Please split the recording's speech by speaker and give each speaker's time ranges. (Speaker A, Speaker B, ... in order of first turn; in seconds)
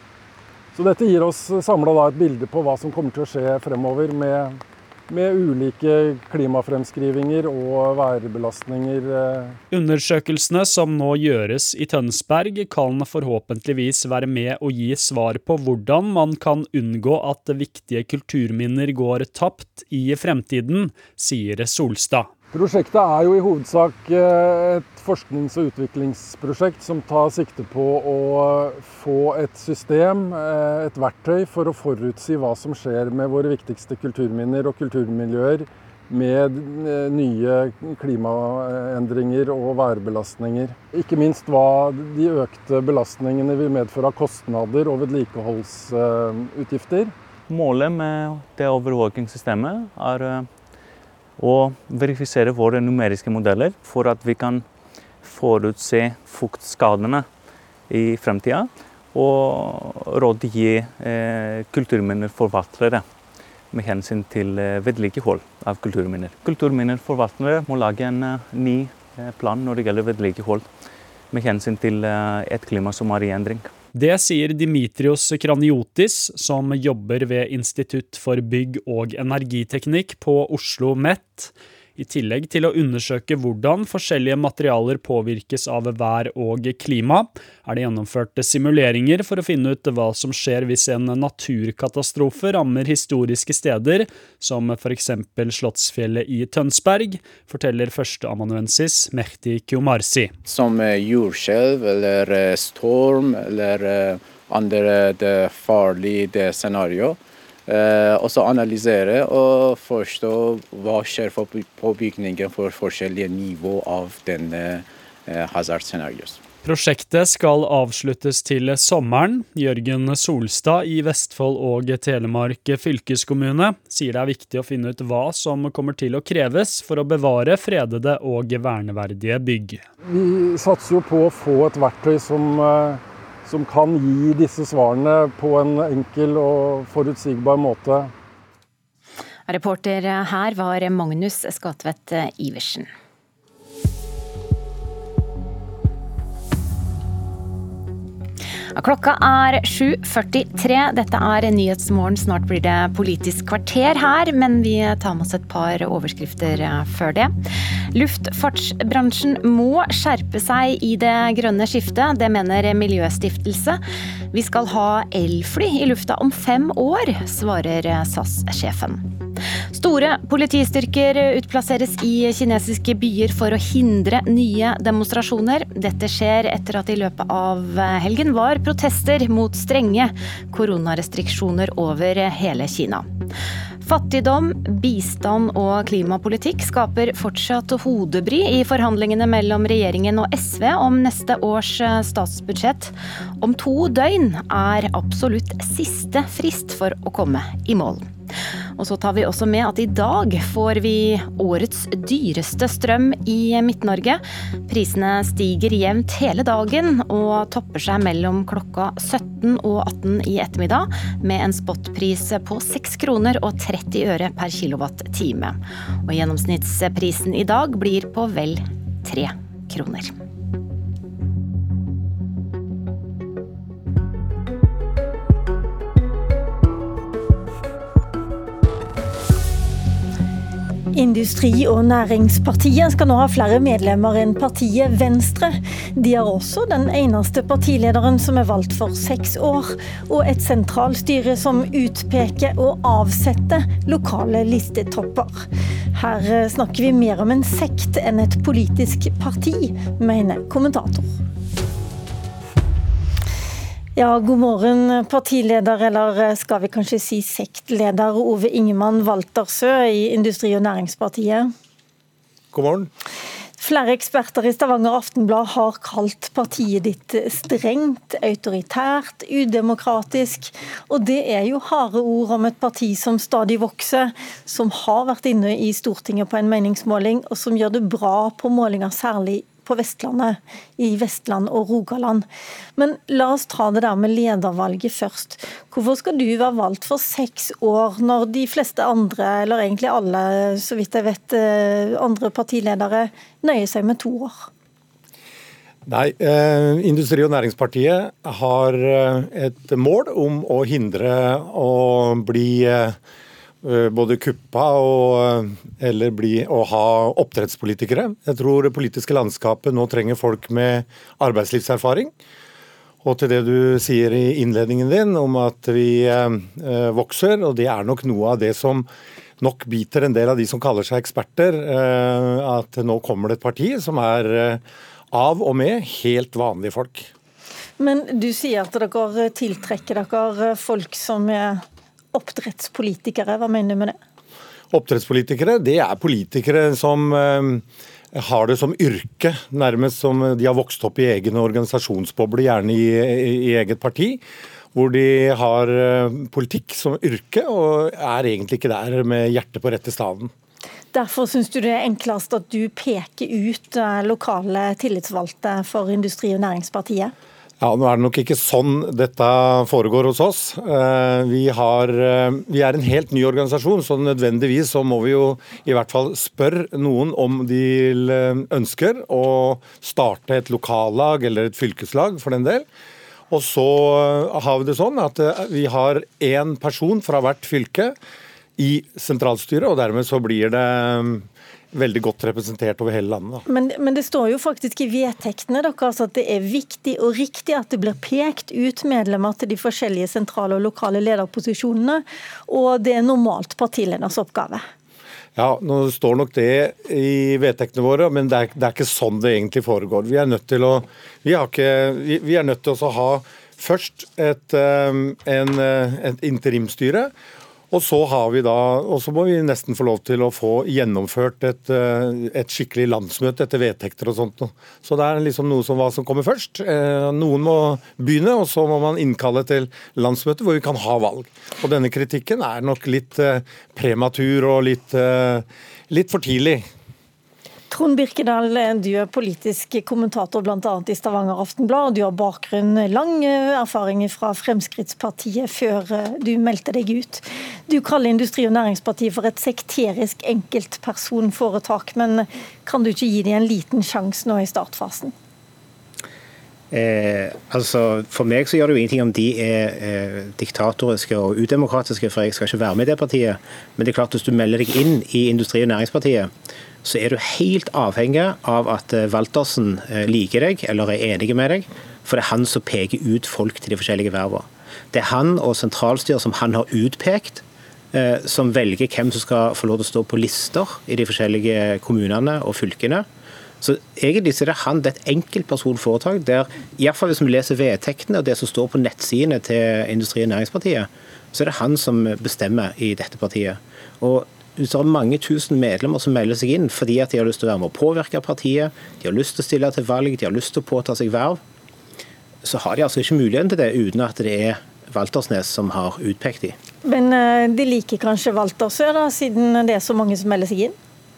Speaker A: 0.7-9.6, 22.5-47.1, 130.0-138.1
Speaker B: 9.7-22.3, 73.9-100.3, 116.6-129.8
Speaker C: 47.5-50.5, 51.4-54.6, 55.2-57.3, 57.9-63.0, 63.7-70.7, 71.3-73.7
Speaker D: 102.5-102.9, 106.4-107.1, 109.1-114.8
Speaker E: 139.5-142.9, 148.8-157.3, 157.9-163.8, 164.3-169.0, 169.7-183.1, 183.8-198.1, 198.8-220.1
Speaker F: 230.9-245.4, 245.9-251.2, 253.9-261.5, 263.6-282.2, 282.8-294.5, 327.8-331.6, 332.1-334.0, 350.9-357.1, 383.5-394.6, 427.7-445.1, 496.8-500.7
Speaker G: 262.5-262.9, 295.9-302.9, 303.6-312.1, 313.0-318.9, 319.4-324.6, 325.1-327.1, 334.7-337.6, 338.1-344.2, 344.7-350.3, 357.6-372.6, 373.3-377.9, 378.6-383.4, 395.4-407.1, 407.7-426.6
Speaker H: 446.7-456.3, 456.8-473.1, 473.6-491.4, 492.4-496.6